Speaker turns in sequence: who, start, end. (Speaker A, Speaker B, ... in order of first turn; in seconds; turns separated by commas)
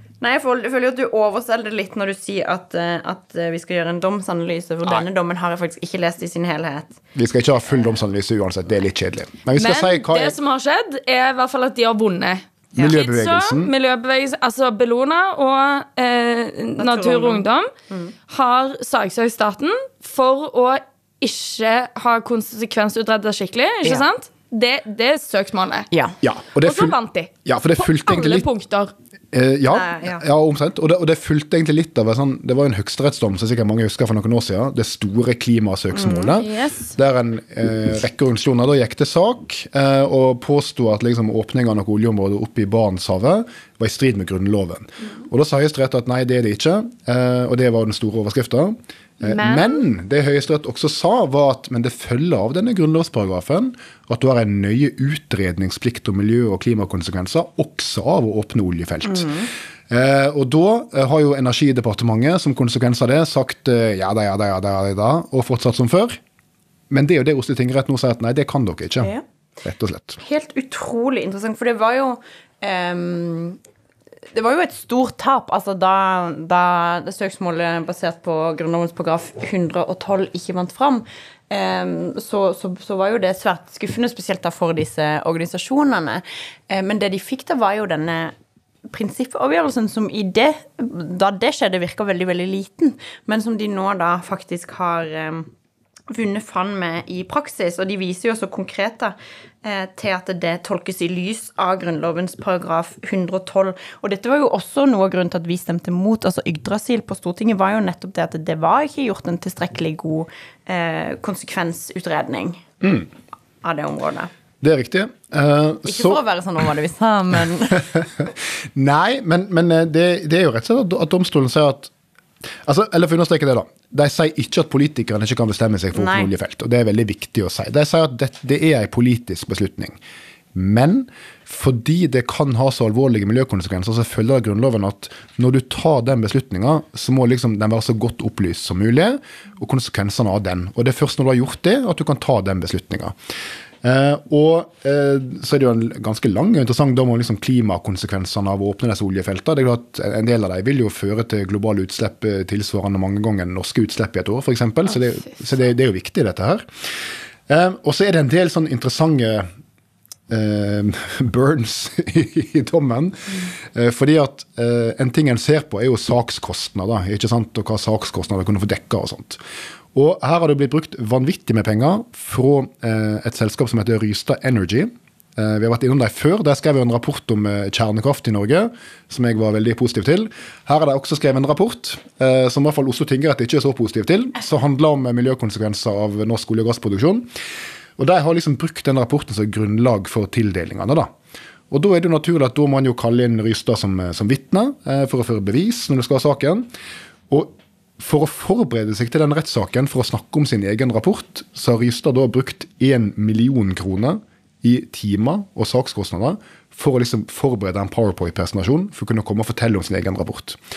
Speaker A: 0.2-7.0, Speaker B: 7.2-10.4, Speaker C: 9.6-17.7, Speaker B: 12.8-13.7, Speaker A: 16.8-18.1, Speaker C: 18.3-25.9, Speaker A: 25.9-26.2, Speaker B: 26.2-28.5, Speaker C: 26.6-28.9, Speaker B: 29.3-66.2, Speaker A: 29.7-30.2, Speaker A: 35.9-36.4, Speaker C: 36.4-36.9, Speaker A: 59.1-59.5, Speaker B: 66.9-70.2, Speaker A: 70.2-73.6, Speaker A: 74.3-88.3, Speaker A: 88.9-95.5, Speaker A: 96.1-112.7, Speaker B: 112.8-113.1, Speaker A: 113.6-114.3, Speaker B: 114.6-116.2, Speaker A: 115.9-118.1, Speaker B: 117.7-121.9, Speaker B: 122.6-130.0, Speaker A: 125.9-126.3, Speaker B: 130.5-143.1, Speaker B: 143.8-156.9, Speaker B: 157.5-159.5, Speaker B: 160.3-169.4, Speaker B: 169.9-187.3, Speaker B: 188.0-191.1, Speaker B: 191.7-196.7, Speaker B: 197.3-210.6